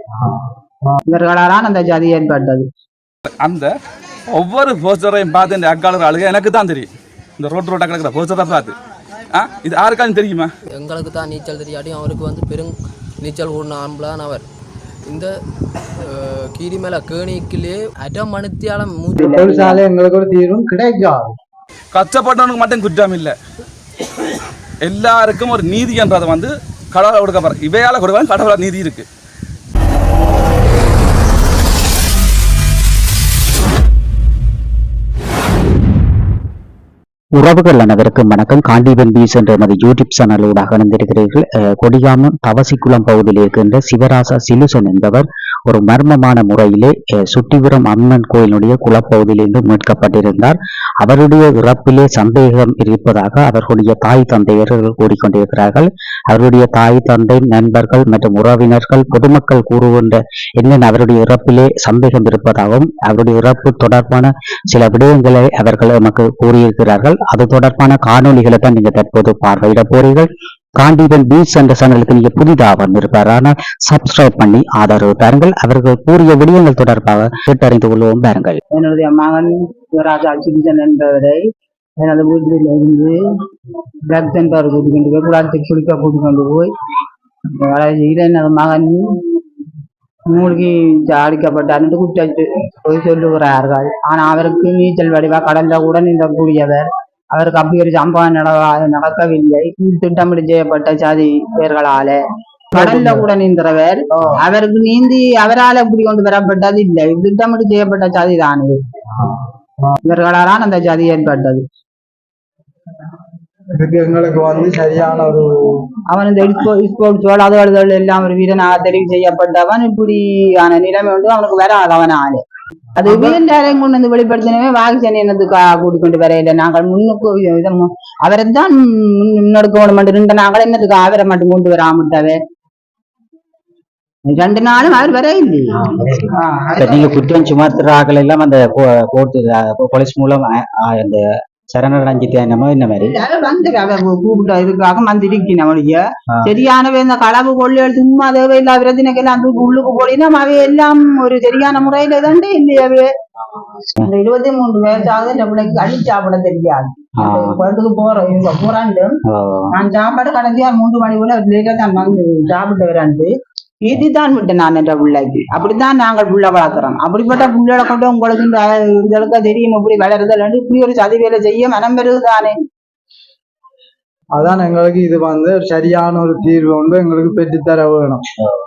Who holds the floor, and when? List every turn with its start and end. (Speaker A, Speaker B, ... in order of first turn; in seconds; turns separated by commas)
Speaker A: 1.1-2.7, Speaker B: 3.4-3.7, Speaker B: 4.3-8.7, Speaker B: 9.3-10.5, Speaker C: 10.7-14.4, Speaker C: 15.1-15.3, Speaker C: 16.0-19.2, Speaker D: 19.1-21.3, Speaker A: 19.2-19.8, Speaker B: 21.9-23.3, Speaker B: 24.8-29.0, Speaker E: 37.3-78.6, Speaker A: 78.7-81.4, Speaker A: 82.0-83.2, Speaker A: 84.1-86.7, Speaker A: 87.6-89.1, Speaker A: 90.3-102.2, Speaker D: 102.7-103.3, Speaker A: 102.7-108.8, Speaker A: 110.0-111.6, Speaker D: 113.8-115.8, Speaker A: 116.1-122.4, Speaker A: 123.0-132.4, Speaker D: 123.0-123.4, Speaker A: 134.3-135.7, Speaker E: 135.8-143.1, Speaker A: 136.3-137.1, Speaker A: 143.1-153.1, Speaker A: 154.0-159.2, Speaker E: 157.2-157.6, Speaker E: 159.3-159.7, Speaker A: 159.7-163.3, Speaker A: 163.8-172.6, Speaker D: 174.3-178.2